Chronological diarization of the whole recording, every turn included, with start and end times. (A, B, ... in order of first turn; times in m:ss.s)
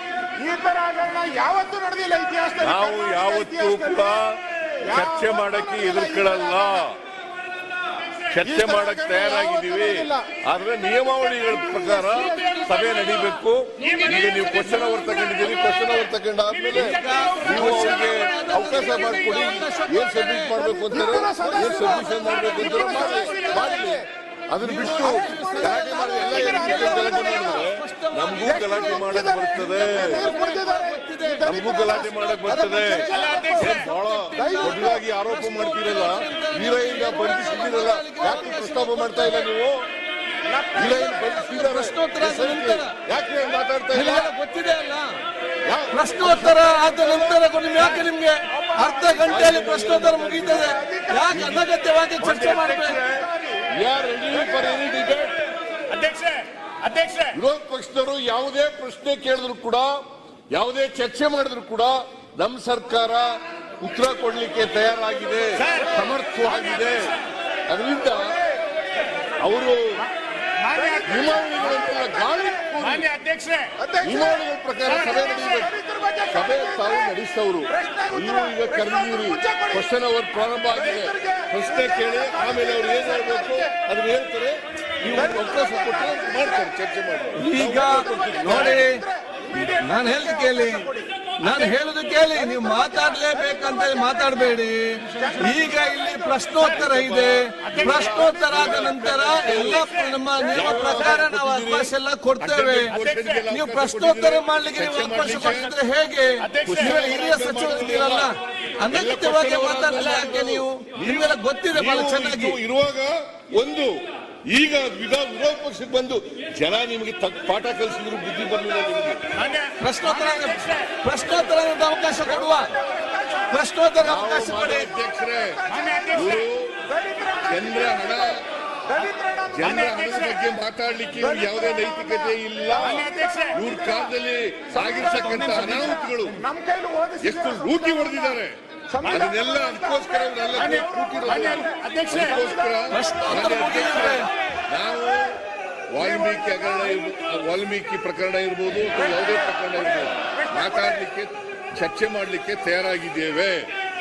0:00.4-0:04.1 A
0:02.6-0:07.0 B
0:04.8-0:06.9 A
0:08.3-0:30.3 B
0:08.4-0:10.3 A
0:11.4-0:13.1 A
0:12.1-0:18.5 C
0:16.8-0:20.6 D
0:20.6-0:24.0 A
0:22.1-0:23.8 C
0:24.6-0:39.4 D
0:24.8-0:27.7 A
0:28.4-0:35.0 A
0:31.4-0:33.1 B
0:33.1-0:33.9 C
0:33.6-0:39.8 B
0:40.4-0:41.1 A
0:40.7-0:44.3 B
0:40.8-0:42.9 D
0:43.9-0:45.2 D
0:45.6-0:47.4 B
0:45.9-0:53.0 D
0:48.5-0:49.3 A
0:49.3-0:50.8 B
0:50.6-0:51.4 A
0:51.3-0:51.7 B
0:52.2-0:55.4 B
0:53.0-0:53.7 A
0:55.9-0:57.4 C
0:57.3-1:07.1 B
1:05.6-1:05.9 C
1:06.4-1:07.2 C
1:07.7-1:08.4 B
1:08.1-1:08.8 A
1:09.4-1:10.0 B
1:10.6-1:11.1 C
1:10.7-1:12.8 A
1:11.0-1:13.0 B
1:12.8-1:13.7 C
1:13.8-1:17.2 A
1:14.0-1:15.7 B
1:16.3-1:28.8 B
1:17.7-1:19.8 A
1:20.7-1:23.7 A
1:25.0-1:26.7 A
1:27.4-1:29.0 D
1:27.7-1:31.7 A
1:29.6-1:42.9 D
1:32.3-1:34.4 A
1:35.0-1:36.8 A
1:36.6-1:39.8 B
1:37.6-1:38.2 C
1:38.1-1:38.9 A
1:39.4-1:40.7 C
1:40.5-1:45.7 B
1:42.9-1:43.5 C
1:43.5-1:52.6 D
1:46.4-1:47.0 C
1:46.6-1:48.3 B
1:48.9-1:59.2 B
1:59.3-2:01.0 C
1:59.8-2:02.7 D
2:02.2-2:03.6 A
2:03.5-2:04.9 D
2:04.0-2:06.8 B
2:05.5-2:08.3 A
2:05.7-2:06.4 C
2:07.5-2:08.4 B
2:08.9-2:09.8 A
2:09.5-2:16.4 B
2:09.7-2:10.4 C
2:11.2-2:14.1 A
2:12.8-2:13.6 C
2:14.8-2:15.9 C
2:15.0-2:18.4 A
2:17.2-2:25.4 B
2:18.9-2:22.8 A
2:20.6-2:22.4 C
2:22.9-2:24.3 D
2:25.9-2:33.7 B
2:26.4-2:26.9 A
2:28.9-2:31.0 A